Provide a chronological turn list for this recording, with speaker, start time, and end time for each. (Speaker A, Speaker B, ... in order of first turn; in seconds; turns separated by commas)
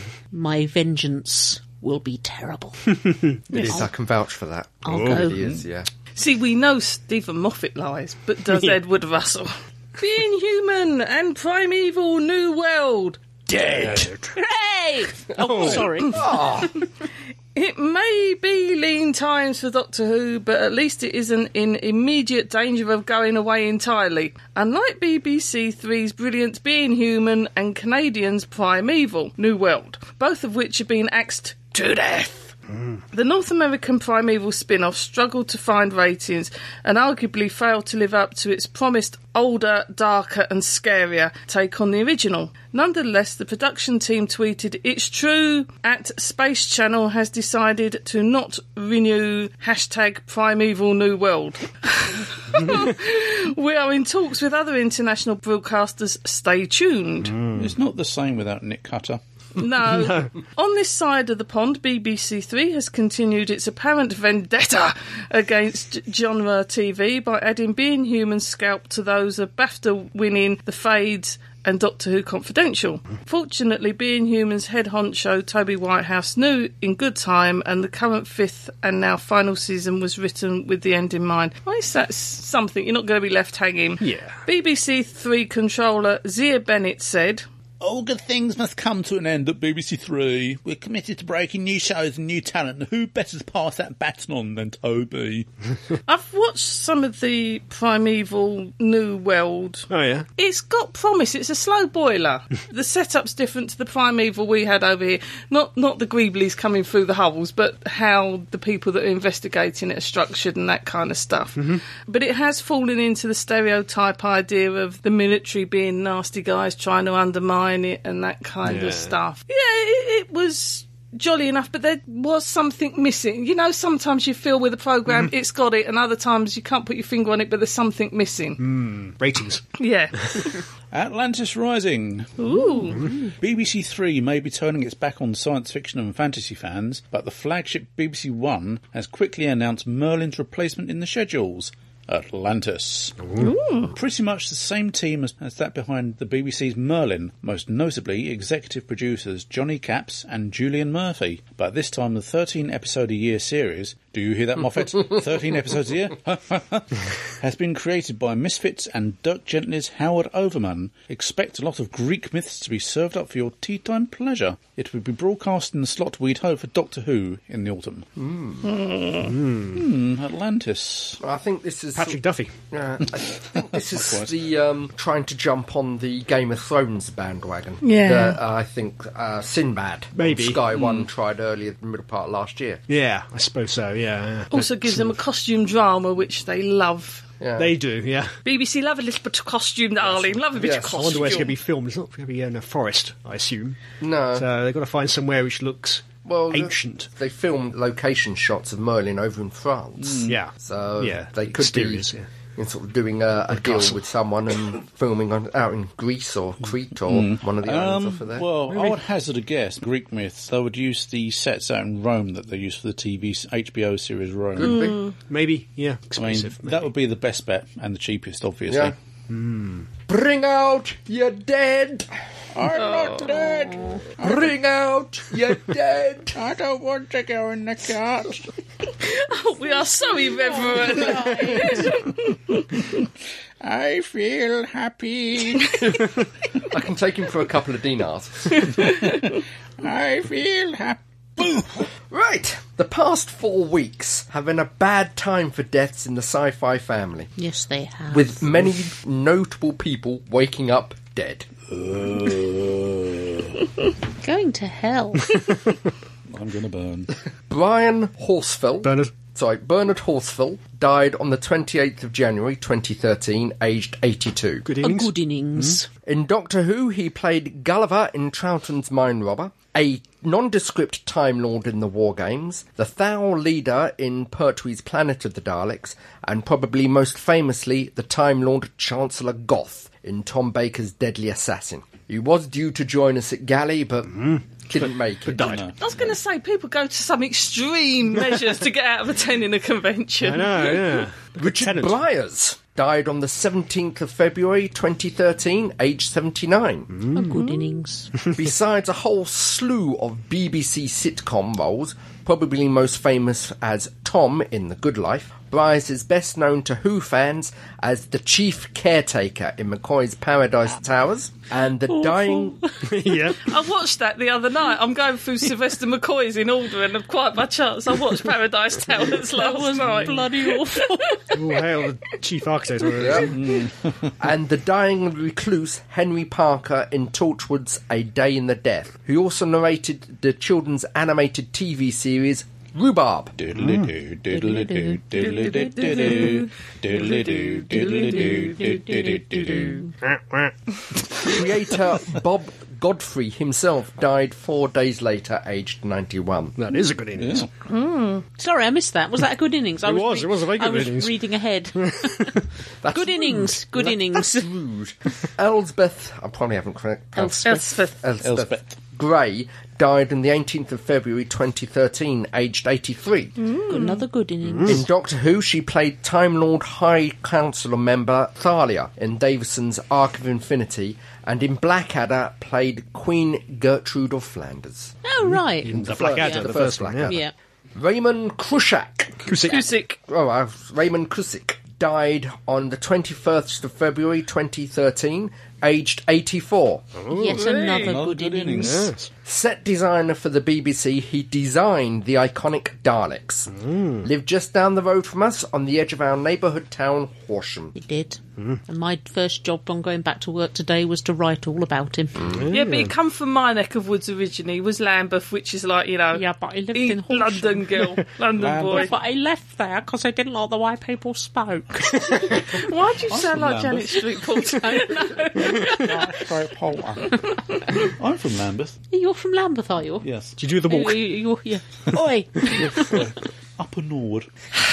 Speaker A: 0.3-3.0, Speaker B: 3.5-5.9, Speaker A: 3.5-3.9, Speaker A: 4.8-5.4, Speaker C: 6.1-13.2, Speaker B: 13.5-14.1, Speaker D: 13.8-14.3, Speaker A: 14.3-16.4, Speaker B: 15.4-16.8, Speaker C: 17.5-32.5, Speaker C: 33.1-57.4, Speaker D: 52.5-52.8, Speaker D: 57.2-57.7, Speaker E: 57.5-59.2, Speaker C: 59.6-87.4, Speaker D: 59.9-60.3, Speaker D: 84.0-84.4, Speaker E: 87.8-95.5, Speaker C: 96.1-128.6, Speaker D: 99.9-100.2, Speaker D: 118.6-119.1, Speaker D: 128.6-129.6, Speaker C: 129.8-130.6, Speaker E: 130.9-132.3, Speaker C: 132.4-133.1, Speaker E: 133.4-143.3, Speaker C: 143.4-143.9, Speaker E: 143.9-168.1, Speaker B: 168.2-168.7, Speaker C: 168.6-169.3, Speaker D: 169.2-169.8, Speaker E: 169.6-171.2, Speaker B: 171.2-182.8, Speaker D: 171.9-172.5, Speaker E: 173.9-174.3, Speaker C: 177.8-178.4, Speaker D: 180.1-180.6, Speaker E: 180.7-181.0, Speaker D: 182.9-185.1, Speaker C: 184.5-187.2, Speaker B: 187.4-187.7, Speaker D: 187.6-188.3, Speaker C: 188.4-191.6, Speaker B: 190.6-191.3, Speaker D: 190.9-193.8, Speaker B: 194.0-194.4, Speaker D: 194.3-197.1, Speaker B: 196.2-208.4, Speaker E: 200.0-200.4, Speaker D: 200.3-202.3, Speaker E: 207.1-214.8, Speaker B: 214.6-215.0, Speaker C: 214.6-215.1, Speaker D: 215.3-216.9, Speaker E: 216.2-218.9, Speaker B: 218.7-218.9, Speaker D: 219.3-219.8, Speaker B: 220.1-222.1, Speaker E: 222.5-224.5, Speaker C: 222.7-223.3, Speaker B: 224.2-226.4, Speaker E: 226.3-228.4, Speaker C: 229.0-232.9, Speaker A: 230.1-231.9, Speaker E: 233.6-235.8, Speaker B: 236.6-238.7, Speaker C: 238.6-239.2, Speaker E: 238.8-241.9, Speaker B: 242.0-247.3, Speaker A: 247.4-248.4, Speaker B: 248.1-251.5, Speaker E: 251.7-253.6, Speaker A: 254.2-255.4, Speaker E: 256.3-257.1, Speaker B: 257.5-264.7, Speaker D: 258.8-259.1, Speaker D: 264.6-265.8, Speaker A: 264.8-265.9, Speaker B: 266.0-285.6, Speaker D: 285.2-285.6, Speaker E: 285.3-285.8, Speaker C: 285.8-291.0, Speaker D: 290.2-291.9, Speaker B: 291.4-297.0, Speaker A: 297.1-298.1, Speaker B: 298.3-312.6, Speaker A: 311.9-312.8, Speaker D: 312.8-313.5, Speaker C: 313.3-321.5, Speaker A: 319.2-321.4, Speaker D: 321.3-323.4, Speaker B: 323.0-323.4, Speaker E: 323.2-324.1, Speaker B: 324.2-333.3, Speaker E: 333.4-339.9, Speaker A: 334.3-336.4, Speaker C: 335.9-336.3, Speaker A: 337.9-339.9, Speaker D: 340.0-340.5, Speaker B: 341.2-346.6, Speaker D: 346.6-347.5, Speaker E: 347.2-347.5, Speaker C: 347.6-348.2, Speaker A: 348.4-352.4, Speaker D: 349.8-351.1, Speaker D: 351.8-352.4, Speaker B: 352.8-363.4, Speaker A: 352.9-354.5, Speaker C: 357.1-358.0, Speaker E: 358.2-358.8, Speaker C: 363.4-364.0, Speaker A: 363.7-364.8, Speaker B: 364.6-374.9, Speaker A: 375.0-377.3, Speaker D: 375.6-377.1, Speaker B: 375.7-377.2, Speaker B: 377.7-379.3, Speaker D: 379.2-379.6, Speaker C: 379.5-380.0, Speaker B: 380.1-386.9, Speaker D: 387.0-387.4, Speaker A: 387.1-388.9, Speaker C: 387.3-387.9, Speaker E: 387.8-388.9, Speaker D: 388.6-389.1, Speaker B: 389.2-397.7, Speaker D: 393.6-394.0, Speaker A: 397.7-402.3, Speaker D: 402.3-402.9, Speaker C: 402.5-406.2, Speaker A: 406.1-407.8, Speaker C: 406.7-408.9, Speaker E: 408.4-408.9, Speaker A: 408.7-412.6, Speaker C: 412.3-415.8, Speaker E: 413.1-414.1, Speaker A: 414.6-416.1, Speaker E: 415.4-418.8, Speaker A: 418.9-420.1, Speaker E: 420.0-420.4, Speaker D: 420.4-421.1, Speaker A: 420.6-423.1, Speaker E: 422.6-424.3